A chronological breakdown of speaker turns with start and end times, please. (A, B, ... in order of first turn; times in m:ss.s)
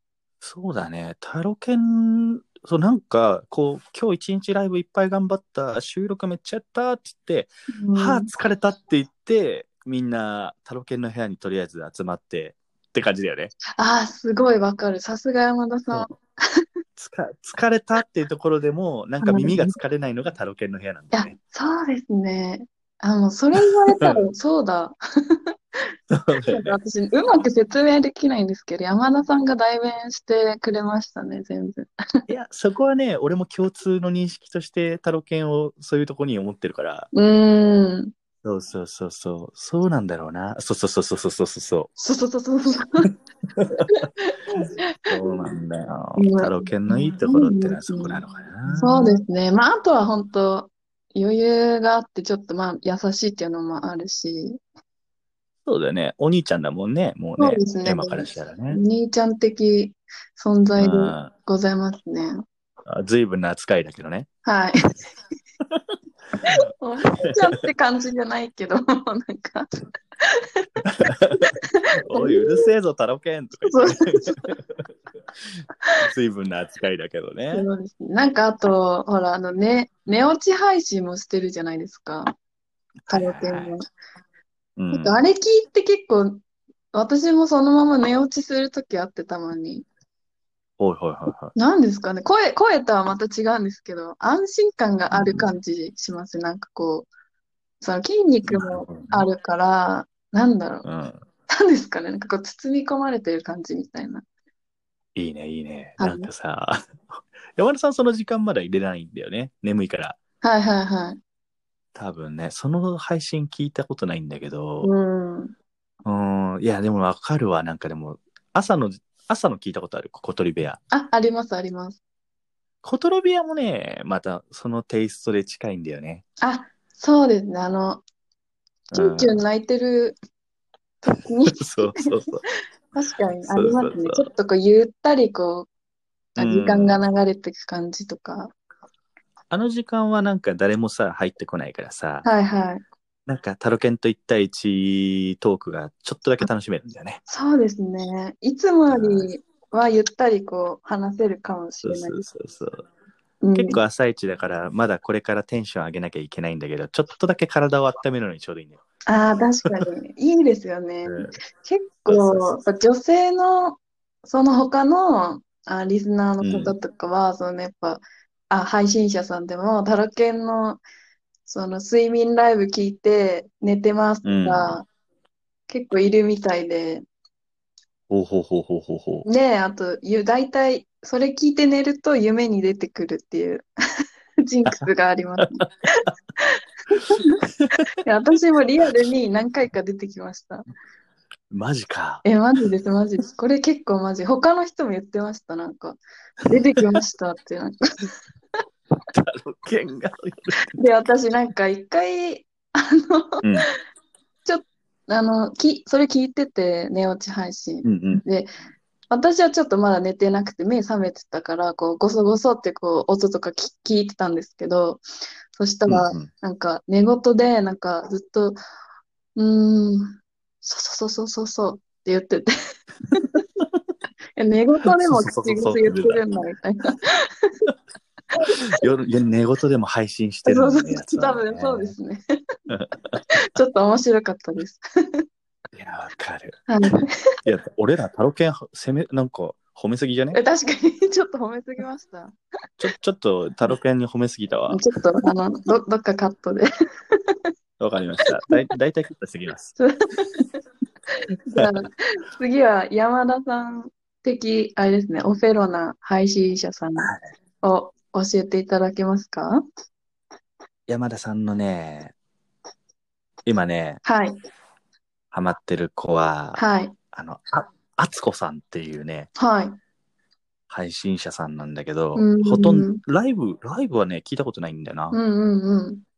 0:00.4-0:13.5 A
0:07.7-0:08.3 B
0:13.8-0:16.7 B
0:17.0-0:21.4 A
0:19.2-0:19.8 B
0:21.1-0:25.6 B
0:26.1-0:26.7 A
0:26.5-0:32.2 B
0:32.3-0:37.1 A
0:37.1-0:38.1 B
0:38.4-0:42.0 A
0:42.0-0:43.1 B
0:43.6-0:43.9 A
0:43.9-0:45.4 B
0:45.1-0:49.2 A
0:46.2-0:48.2 B
0:48.8-0:54.6 B
0:55.6-0:58.8 A
0:57.4-1:02.4 B
1:00.8-1:01.3 A
1:02.9-1:04.3 A
1:04.4-1:04.8 B
1:06.8-1:09.7 B
1:10.2-1:10.5 B
1:11.0-1:11.5 A
1:11.6-1:12.6 B
1:12.1-1:14.6 A
1:13.6-1:14.5 B
1:16.0-1:17.7 A
1:17.5-1:22.3 B
1:23.1-1:23.8 A
1:23.1-1:23.8 B
1:24.8-1:25.2 A
1:24.9-1:26.4 B
1:26.9-1:29.9 B
1:30.8-1:31.5 A
1:31.6-1:37.1 B
1:35.1-1:35.5 A
1:37.8-1:40.9 B
1:38.4-1:39.3 A
1:40.8-1:41.2 A
1:41.5-1:44.2 B
1:45.2-1:50.2 A
1:46.0-1:46.3 B
1:50.4-1:51.2 B
1:52.0-1:54.9 A
1:54.8-1:55.5 B
1:56.0-2:00.8 A
2:00.9-2:02.0 B
2:02.8-2:06.2 A
2:06.4-2:08.0 B
2:08.9-2:09.4 A
2:08.9-2:10.2 B
2:11.0-2:12.3 B
2:11.6-2:12.4 A
2:12.9-2:15.7 B
2:13.5-2:14.3 A
2:16.4-2:17.0 A
2:16.4-2:18.5 B
2:19.5-2:22.3 A
2:22.2-2:22.9 B
2:23.3-2:27.2 A
2:27.3-2:32.3 B
2:28.9-2:29.3 A
2:31.8-2:32.8 A
2:33.4-2:33.8 B
2:33.6-2:38.8 A
2:39.1-2:50.8 B
2:41.0-2:41.3 A
2:42.1-2:42.6 A
2:46.4-2:46.7 A
2:51.5-2:54.9 B
2:54.2-2:54.7 A
2:55.7-2:57.0 B
2:58.1-2:59.3 A
2:59.2-3:03.7 B
3:04.5-3:05.7 B
3:05.4-3:05.6 A
3:08.0-3:10.6 B
3:11.5-3:12.2 A
3:12.2-3:17.8 B
3:19.1-3:20.8 A
3:20.8-3:23.6 B
3:23.4-3:23.7 A
3:24.4-3:28.5 B
3:27.8-3:28.2 A
3:29.1-3:38.6 B
3:35.9-3:36.3 A
3:39.4-3:42.5 B
3:44.4-3:47.7 B
3:45.0-3:46.2 A
3:48.5-3:51.9 A
3:50.5-3:52.4 B
3:52.7-3:53.2 A
3:53.5-3:55.2 B
3:55.7-3:56.7 A
3:56.7-3:57.4 B
3:57.4-4:00.4 A
4:00.3-4:02.4 B
4:02.8-4:04.8 A
4:04.7-4:07.4 B
4:07.8-4:09.8 A
4:09.8-4:10.5 B
4:11.5-4:17.1 B
4:17.6-4:19.6 B
4:20.9-4:22.1 A
4:23.5-4:24.0 A
4:24.0-4:24.4 B
4:25.3-4:29.3 A
4:26.6-4:27.0 B
4:29.4-4:29.8 B
4:30.7-4:35.2 A
4:32.2-4:33.0 B
4:35.1-4:36.0 B